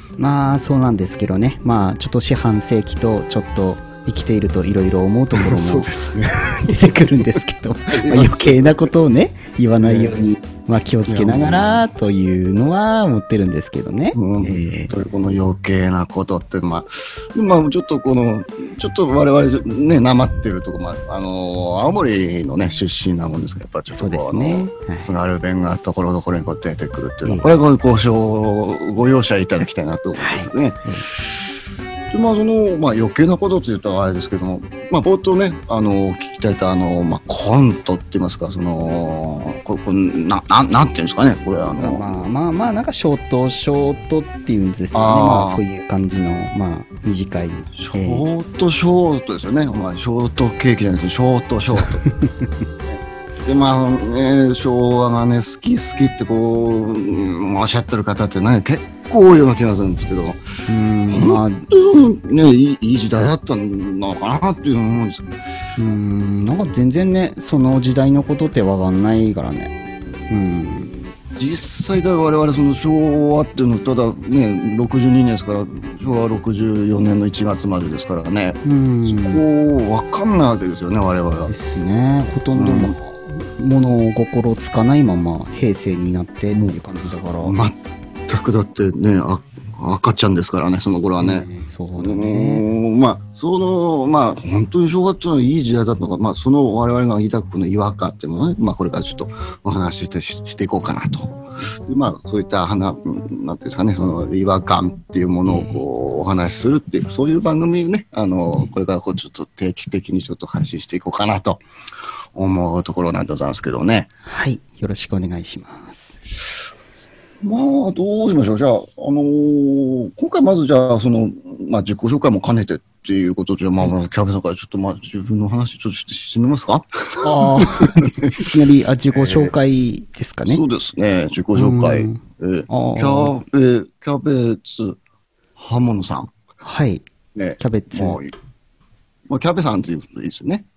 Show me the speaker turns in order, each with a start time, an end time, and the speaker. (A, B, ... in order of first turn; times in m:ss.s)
0:00.2-0:05.9 A
0:05.3-0:07.1 B
0:06.6-0:14.9 A
0:07.9-0:08.9 B
0:09.8-0:10.2 B
0:11.1-0:11.8 B
0:14.1-0:31.5 B
0:23.9-0:25.1 A
0:27.2-0:27.5 A
0:30.2-0:31.1 A
0:32.1-0:42.2 B
0:41.7-0:48.2 A
0:44.9-0:45.6 B
0:47.8-0:52.0 B
0:51.7-0:52.5 A
0:52.8-1:00.4 B
1:00.7-1:01.6 A
1:01.1-1:05.4 B
1:05.8-1:09.7 A
1:10.3-1:10.9 A
1:11.3-1:21.5 B
1:18.6-1:19.4 A
1:21.5-1:27.6 A
1:22.5-1:23.0 B
1:26.5-1:26.8 B
1:27.4-1:27.7 B
1:28.3-1:31.5 B
1:31.2-1:32.6 A
1:32.0-1:51.6 B
1:45.4-1:45.8 A
1:52.3-1:54.1 B
1:54.2-1:56.2 A
1:57.4-2:08.5 B
2:07.2-2:10.6 A
2:09.1-2:09.5 B
2:10.5-2:15.0 B
2:11.5-2:13.3 A
2:15.6-2:16.3 B
2:16.6-2:17.0 A
2:17.3-2:18.3 B
2:17.6-2:18.2 A
2:19.3-2:20.6 B